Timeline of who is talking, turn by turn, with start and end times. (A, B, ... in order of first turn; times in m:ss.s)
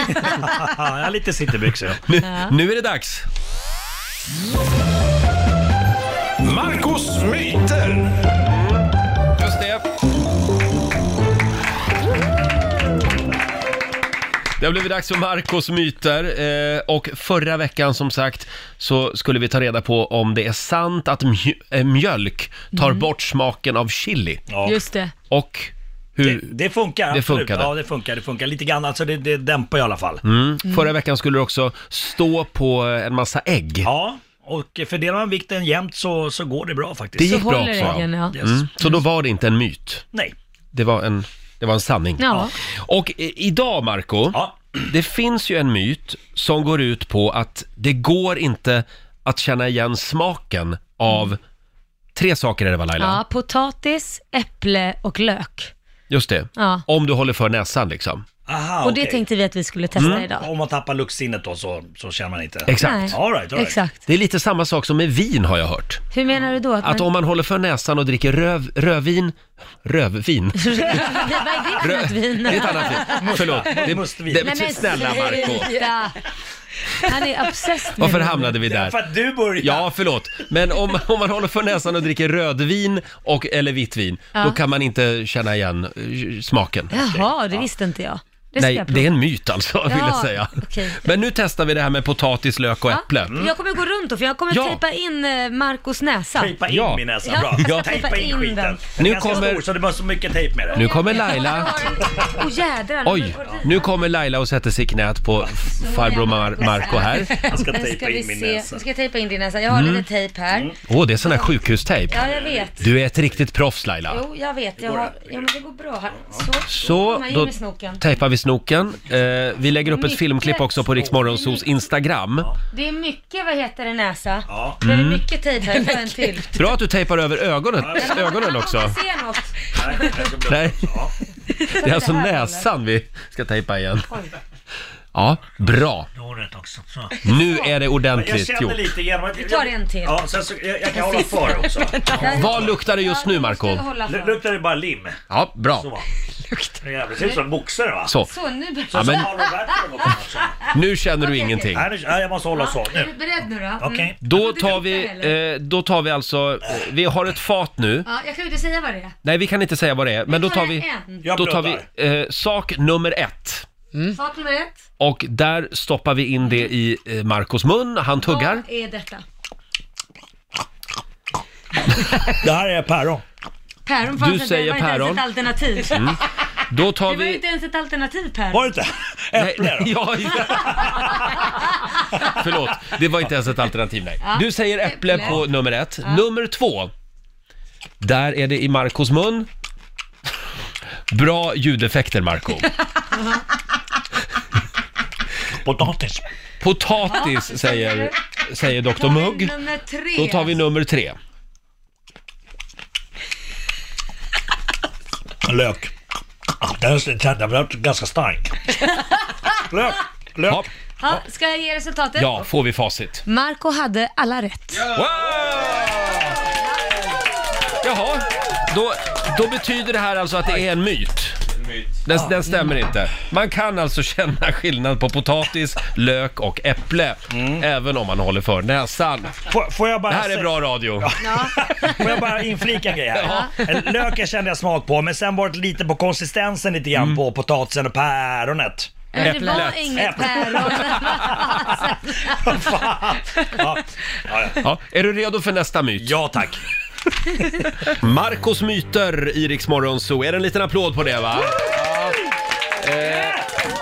0:00.2-0:02.0 A
0:02.1-0:03.2 B
0:02.2-0:02.5 C
0:06.4-0:08.2 A
0:08.4-0:08.8 B
0:09.4-0:09.8 B
0:14.6-0:24.4 B
0:22.7-0:23.1 C
0:24.5-0:24.8 A
0:24.6-0:25.1 C
0:25.3-0:26.5 B
0:26.2-0:30.2 A
0:27.1-0:27.7 B
0:30.2-0:33.9 B
0:33.8-0:38.6 A
0:37.2-0:40.0 B
0:37.2-0:38.4 C
0:40.7-0:51.4 B
0:42.2-0:42.6 C
0:44.3-0:44.9 A
0:52.1-0:53.2 B
0:53.0-0:55.7 C
0:56.1-0:58.2 B
0:56.6-0:56.8 C
0:58.4-0:59.2 A
0:58.8-1:00.5 C
0:59.9-1:03.8 A
1:00.0-1:00.2 B
1:02.7-1:03.2 B
1:02.8-1:04.0 C
1:04.0-1:06.0 B
1:06.1-1:07.1 C
1:06.8-1:15.7 B
1:10.6-1:13.5 C
1:11.0-1:11.7 A
1:12.7-1:15.2 A
1:14.4-1:16.2 C
1:16.8-1:18.6 C
1:17.9-1:19.0 B
1:18.6-1:19.9 A
1:19.6-1:27.0 B
1:26.9-1:29.1 C
1:27.0-1:27.7 A
1:28.6-1:33.5 B
1:29.8-1:31.1 C
1:32.9-1:36.6 C
1:33.2-1:33.5 A
1:34.5-1:34.8 B
1:36.3-1:40.8 A
1:36.7-1:38.0 B
1:37.2-1:39.4 C
1:39.0-1:39.6 B
1:40.7-1:44.0 C
1:40.8-1:41.8 B
1:43.0-1:47.3 B
1:43.4-1:43.6 A
1:45.6-1:52.9 C
1:46.6-1:48.8 A
1:49.7-1:50.0 B
1:50.5-1:50.8 A
1:50.9-1:52.2 B
1:52.1-1:52.7 A
1:52.8-1:54.2 B
1:54.1-1:58.0 C
1:54.8-1:55.5 A
1:56.2-1:56.4 A
1:56.7-2:02.5 B
1:59.8-2:01.6 C
2:02.7-2:06.7 C
2:04.5-2:04.8 A
2:04.8-2:05.2 B
2:06.5-2:08.9 B
2:07.8-2:08.3 A
2:07.9-2:10.3 C
2:09.8-2:11.1 A
2:10.4-2:10.9 B
2:11.4-2:12.7 C
2:11.7-2:14.1 B
2:14.1-2:14.3 C
2:15.1-2:16.1 B
2:15.6-2:17.2 A
2:17.2-2:17.8 C
2:17.2-2:18.8 B
2:18.1-2:22.8 A
2:19.4-2:20.2 C
2:20.9-2:24.4 C
2:22.1-2:23.8 B
2:24.0-2:25.2 A
2:25.3-2:25.9 B
2:25.7-2:26.0 A
2:26.2-2:27.2 C
2:26.8-2:28.1 A
2:28.2-2:31.8 C
2:28.9-2:30.5 A
2:28.9-2:29.3 B
2:30.7-2:31.9 B
2:31.7-2:33.1 A
2:32.5-2:35.4 C
2:33.8-2:34.1 A
2:34.2-2:38.1 B
2:38.0-2:39.1 C
2:39.2-2:43.7 B
2:40.3-2:41.3 C
2:41.2-2:41.8 A
2:44.0-2:44.8 C
2:45.0-2:48.6 B
2:48.2-2:49.2 C
2:52.3-2:53.2 A
2:53.8-2:56.2 C
2:54.2-2:55.2 B
2:55.8-2:57.4 B
2:57.0-2:58.7 C
2:58.5-3:01.1 A
2:59.4-3:06.9 B
3:00.9-3:01.6 C
3:04.2-3:05.4 C
3:08.0-3:09.5 B
3:11.1-3:12.7 B
3:13.1-3:13.4 C
3:15.6-3:16.2 A
3:16.6-3:19.6 B
3:17.0-3:20.6 C
3:20.1-3:21.2 B
3:25.4-3:25.9 A
3:26.6-3:28.7 A
3:28.8-3:29.6 C
3:29.7-3:30.7 A
3:31.0-3:32.4 C
3:32.2-3:33.2 B
3:33.2-3:34.9 C
3:34.8-3:36.4 B
3:37.8-3:41.4 B
3:42.0-3:49.4 B
3:42.1-3:42.4 A
3:47.3-3:47.7 A
3:49.4-4:04.6 A
3:50.1-3:51.7 B
3:51.2-3:52.0 C
3:53.1-3:54.0 B
3:53.2-3:53.5 C
3:59.1-4:02.7 C
3:59.2-4:01.7 B
4:04.5-4:06.2 B
4:06.0-4:06.6 A
4:07.6-4:12.2 B
4:12.8-4:13.4 B
4:13.0-4:13.4 A